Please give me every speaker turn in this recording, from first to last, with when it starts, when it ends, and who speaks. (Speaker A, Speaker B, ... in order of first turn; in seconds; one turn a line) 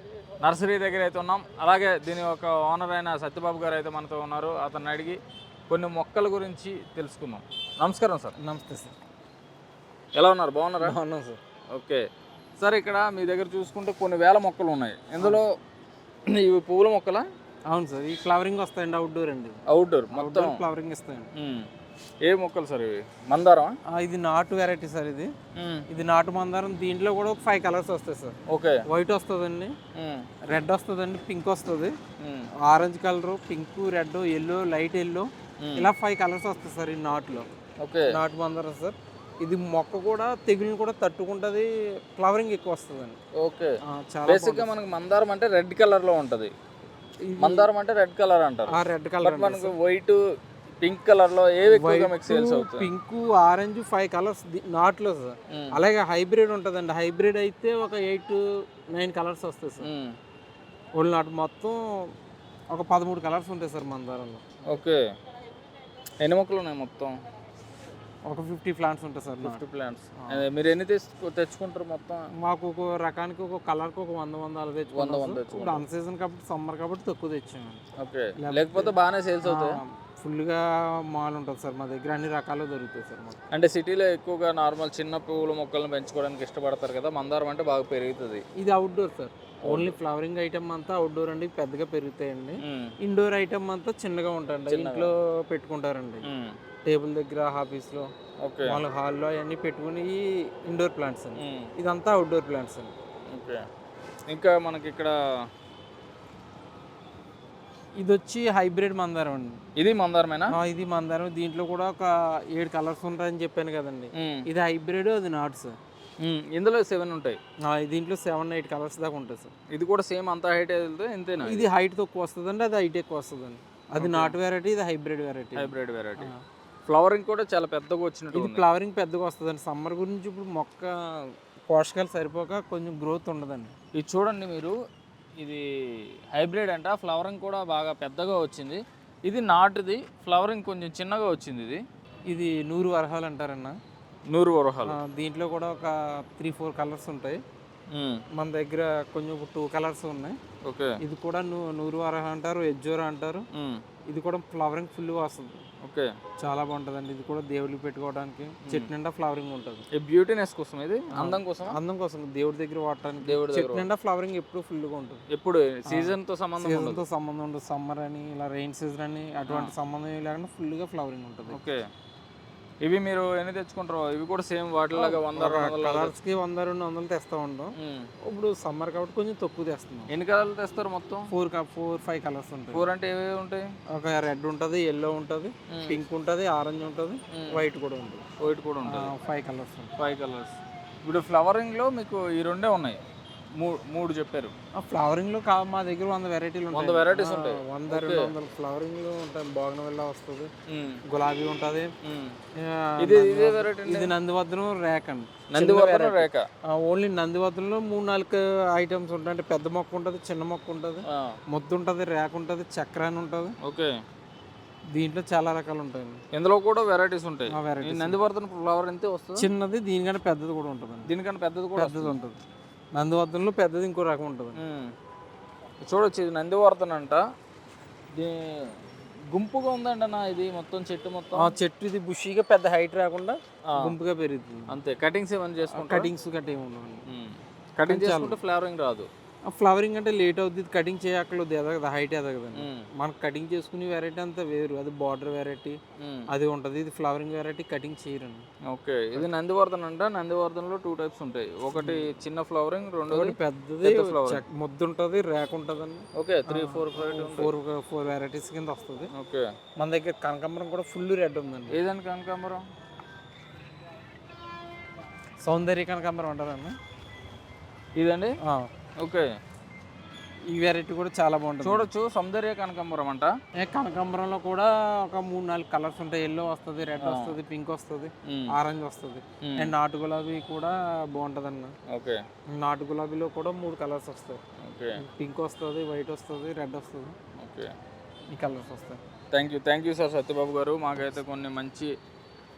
Speaker A: 0.4-8.3
Speaker B: 8.4-8.9
Speaker A: 10.1-10.9
Speaker B: 10.8-11.4
Speaker A: 11.7-12.0
Speaker A: 12.6-15.5
Speaker A: 16.3-17.2
Speaker B: 17.7-19.6
Speaker A: 19.7-20.6
Speaker B: 20.1-21.3
Speaker A: 21.3-21.7
Speaker A: 22.2-23.7
Speaker B: 23.9-25.3
Speaker A: 25.6-25.9
Speaker B: 25.9-28.4
Speaker A: 28.5-28.9
Speaker B: 28.9-29.8
Speaker A: 29.9-30.3
Speaker B: 30.5-31.9
Speaker A: 32.2-32.5
Speaker B: 32.6-37.5
Speaker A: 35.6-35.9
Speaker A: 37.8-38.1
Speaker B: 38.1-43.2
Speaker A: 43.4-43.7
Speaker B: 43.9-44.7
Speaker A: 44.3-46.5
Speaker B: 47.2-47.7
Speaker A: 47.4-50.2
Speaker B: 48.7-49.7
Speaker A: 50.8-52.9
Speaker B: 51.6-59.9
Speaker A: 55.5-55.8
Speaker A: 59.8-60.2
Speaker B: 60.9-62.1
Speaker B: 62.7-64.4
Speaker A: 64.7-65.0
Speaker A: 66.2-67.1
Speaker B: 68.3-69.6
Speaker A: 69.4-72.3
Speaker B: 70.2-70.4
Speaker B: 72.4-77.8
Speaker A: 74.9-75.8
Speaker A: 78.0-79.8
Speaker B: 78.4-83.4
Speaker A: 83.5-88.4
Speaker B: 88.5-96.3
Speaker A: 89.6-90.0
Speaker A: 92.6-92.9
Speaker A: 94.7-95.1
Speaker A: 96.2-96.5
Speaker B: 96.8-98.1
Speaker A: 98.4-98.8
Speaker B: 98.6-102.9
Speaker A: 101.4-101.7
Speaker A: 103.3-103.6
Speaker A: 104.3-105.1
Speaker B: 108.0-109.6
Speaker A: 109.8-110.5
Speaker B: 110.5-115.8
Speaker A: 114.1-114.5
Speaker A: 116.2-117.4
Speaker B: 117.6-119.5
Speaker A: 119.7-121.7
Speaker B: 121.4-126.4
Speaker A: 124.0-124.3
Speaker A: 125.5-126.3
Speaker A: 126.8-128.6
Speaker B: 128.3-133.7
Speaker A: 133.9-134.7
Speaker A: 135.4-141.8
Speaker B: 142.3-143.8
Speaker A: 144.3-145.0
Speaker B: 144.8-147.4
Speaker A: 147.9-148.2
Speaker B: 148.3-150.4
Speaker A: 150.6-151.0
Speaker B: 151.0-153.4
Speaker A: 153.5-153.8
Speaker B: 154.1-155.6
Speaker A: 155.8-156.1
Speaker B: 156.4-159.8
Speaker A: 158.6-158.9
Speaker A: 159.9-161.8
Speaker B: 161.1-165.2
Speaker A: 163.2-163.9
Speaker A: 165.3-167.0
Speaker B: 165.9-171.6
Speaker A: 169.5-169.7
Speaker A: 171.5-171.8
Speaker A: 172.8-176.1
Speaker B: 174.9-177.7
Speaker A: 177.8-178.1
Speaker B: 178.2-180.1
Speaker A: 180.1-181.3
Speaker B: 181.3-182.8
Speaker A: 182.7-183.7
Speaker B: 183.9-188.2
Speaker A: 185.7-186.0
Speaker A: 187.3-187.6
Speaker A: 188.4-189.1
Speaker B: 188.8-189.9
Speaker A: 190.0-193.0
Speaker A: 193.6-194.5
Speaker B: 194.7-200.5
Speaker A: 196.7-198.3
Speaker A: 200.7-201.0
Speaker B: 201.1-201.9
Speaker A: 202.0-202.4
Speaker B: 202.5-213.6
Speaker A: 203.0-204.1
Speaker A: 205.5-206.4
Speaker A: 211.1-211.4
Speaker A: 213.6-213.9
Speaker B: 214.9-216.2
Speaker A: 216.3-219.5
Speaker B: 217.5-218.2
Speaker B: 219.4-221.1
Speaker A: 221.1-222.1
Speaker B: 221.7-222.4
Speaker B: 222.9-224.6
Speaker A: 224.6-224.9
Speaker A: 225.8-227.2
Speaker A: 228.1-231.5
Speaker B: 231.3-234.8
Speaker A: 233.7-233.9
Speaker A: 234.7-236.1
Speaker B: 235.7-237.0
Speaker A: 237.1-239.1
Speaker B: 237.8-238.4
Speaker B: 239.5-245.8
Speaker A: 242.5-242.9
Speaker A: 246.0-246.3
Speaker B: 246.3-248.4
Speaker A: 248.7-254.4
Speaker B: 251.7-252.1
Speaker B: 253.1-259.1
Speaker A: 256.1-257.5
Speaker A: 259.1-259.4
Speaker B: 259.8-261.8
Speaker A: 261.7-262.6
Speaker B: 265.4-266.8
Speaker A: 267.9-268.4
Speaker B: 268.4-268.7
Speaker A: 269.0-269.3
Speaker B: 270.5-271.9
Speaker A: 271.6-273.3
Speaker B: 273.6-281.7
Speaker A: 277.0-277.4
Speaker A: 278.2-278.6
Speaker A: 279.4-279.7
Speaker A: 281.9-282.2
Speaker B: 282.5-284.4
Speaker A: 284.6-285.0
Speaker B: 284.9-287.1
Speaker A: 287.4-287.7
Speaker B: 288.3-289.0
Speaker A: 289.3-291.9